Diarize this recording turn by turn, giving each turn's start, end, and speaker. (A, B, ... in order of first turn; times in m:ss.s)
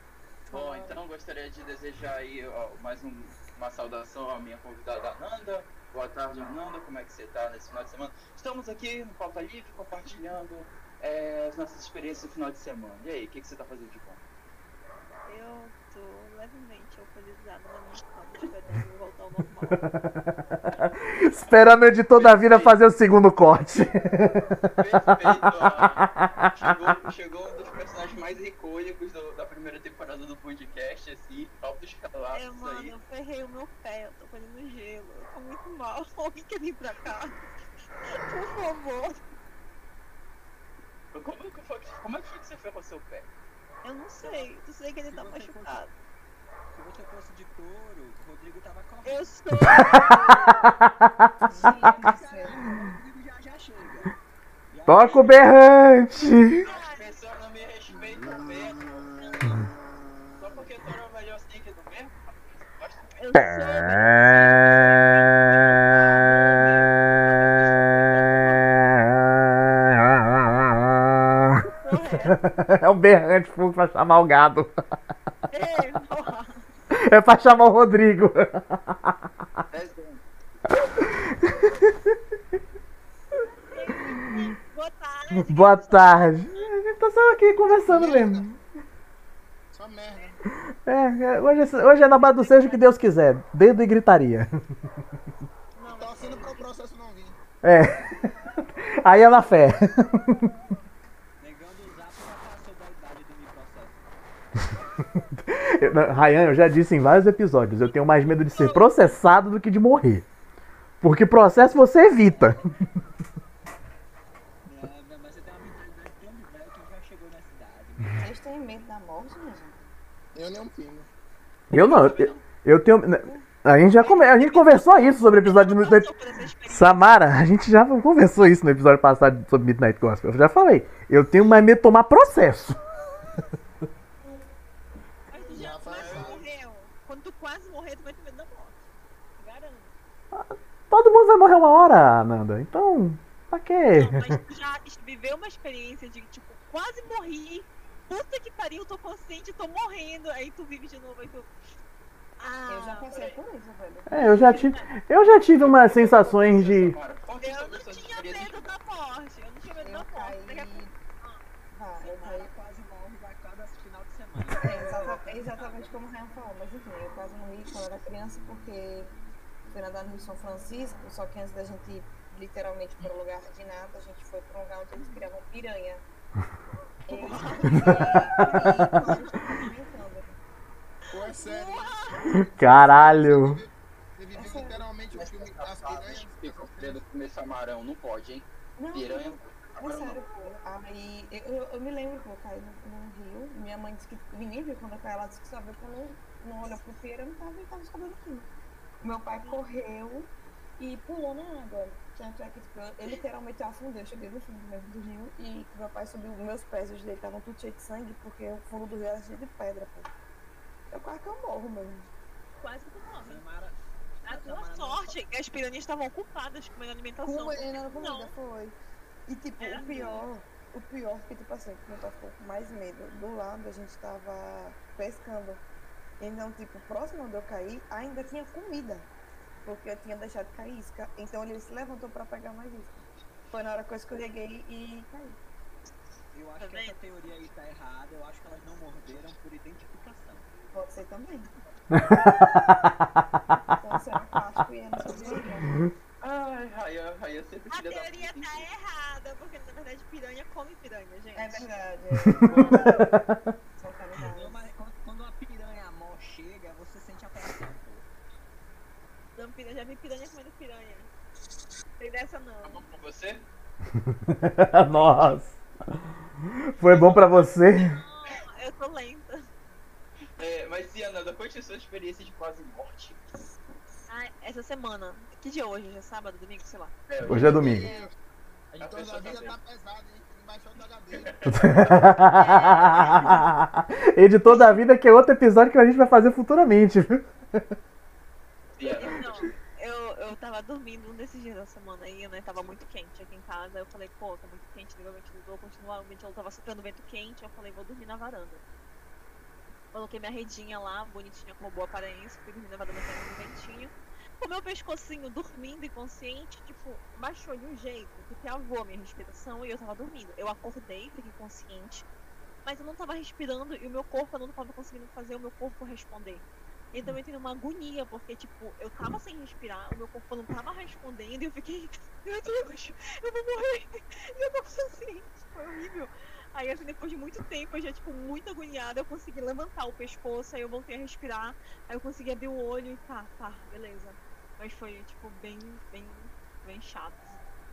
0:00.5-0:01.0 A
0:00.5-0:14.2 B
0:15.3-0:19.8 C
0:19.8-0:26.9 D
0:21.5-0:22.8 B
0:24.8-0:32.9 B
0:32.3-0:37.4 C
0:38.0-0:39.2 C
0:41.1-0:43.3 B
0:43.8-0:45.9 C
0:44.2-0:44.5 E
0:45.0-0:45.8 E
0:46.7-0:50.6 E
0:49.0-0:50.6 C
0:49.6-0:51.7 D
0:51.4-0:52.9 A
0:51.5-0:54.1 E
0:54.7-0:55.5 E
0:54.9-0:56.6 D
0:56.6-0:57.1 C
0:56.6-0:58.9 B
0:58.2-0:59.1 F
1:00.4-1:03.2 B
1:03.2-1:05.2 C
1:03.4-1:05.0 D
1:04.1-1:08.7 B
1:08.7-1:11.6 D
1:11.8-1:12.4 C
1:12.2-1:14.7 D
1:15.5-1:16.6 C
1:16.9-1:19.1 D
1:19.7-1:21.0 B
1:20.9-1:21.9 D
1:23.7-1:26.7 C
1:25.3-1:28.6 D
1:27.6-1:28.5 F
1:29.7-1:30.4 F
1:30.8-1:34.5 D
1:32.1-1:32.6 E
1:35.8-1:36.6 C
1:36.0-1:37.4 F
1:37.6-1:38.3 D
1:39.0-1:40.5 D
1:41.4-1:44.0 E
1:45.4-1:50.2 D
1:48.3-1:49.2 C
1:51.0-1:52.6 D
1:54.6-1:58.3 E
1:58.2-1:59.9 A
2:00.3-2:01.1 F
2:01.7-2:06.1 D
2:01.8-2:02.4 B
2:03.2-2:03.4 A
2:03.9-2:07.1 C
2:06.7-2:12.8 D
2:15.3-2:18.8 C
2:15.5-2:16.4 F
2:15.6-2:16.4 B
2:19.4-2:19.9 C
2:20.3-2:24.3 D
2:23.9-2:31.5 C
2:32.4-2:33.2 C
2:32.7-2:34.1 A
2:34.1-2:36.9 D
2:34.1-2:34.9 C
2:35.4-2:38.7 B
2:37.4-2:41.4 C
2:39.8-2:40.9 A
2:41.7-2:42.5 A
2:42.0-2:46.0 E
2:44.6-2:49.1 A
2:49.7-2:56.0 A
2:57.1-2:59.5 C
2:57.1-3:00.4 A
2:57.4-2:57.9 E
3:01.1-3:07.0 F
3:01.3-3:02.3 C
3:02.4-3:03.6 D
3:04.3-3:04.8 A
3:05.1-3:10.2 B
3:08.8-3:18.5 A
3:19.0-3:30.1 A
3:19.3-3:19.6 C
3:30.9-3:32.1 A
3:32.6-3:33.4 C
3:33.2-3:35.2 E
3:34.2-3:38.3 C
3:37.2-3:38.8 A
3:39.3-3:45.6 A
3:39.6-3:40.2 C
3:46.2-3:49.1 A
3:49.6-3:55.4 A
3:56.3-4:00.7 E
3:56.6-3:57.0 C
4:00.7-4:01.5 A
4:02.0-4:02.9 D
4:03.8-4:05.9 A
4:06.2-4:08.7 B
4:07.7-4:11.7 C
4:11.3-4:14.6 A
4:12.4-4:13.1 D
4:14.2-4:18.0 E
4:19.3-4:21.1 C
4:22.0-4:22.9 C
4:22.6-4:23.4 B
4:24.3-4:25.6 D
4:26.7-4:28.0 D
4:26.8-4:27.5 B
4:27.8-4:29.5 C
4:30.4-4:33.2 B
4:34.1-4:36.9 C
4:37.1-4:37.9 B
4:37.3-4:37.8 D
4:37.3-4:38.1 F
4:37.8-4:38.1 C
4:38.7-4:41.3 F
4:38.8-4:39.6 B
4:41.1-4:43.4 B
4:41.5-4:47.7 D
4:42.4-4:43.4 C
4:44.5-4:44.8 C
4:48.8-4:49.6 B
4:48.8-4:58.6 C
4:59.9-5:12.0 C
5:12.6-5:37.4 C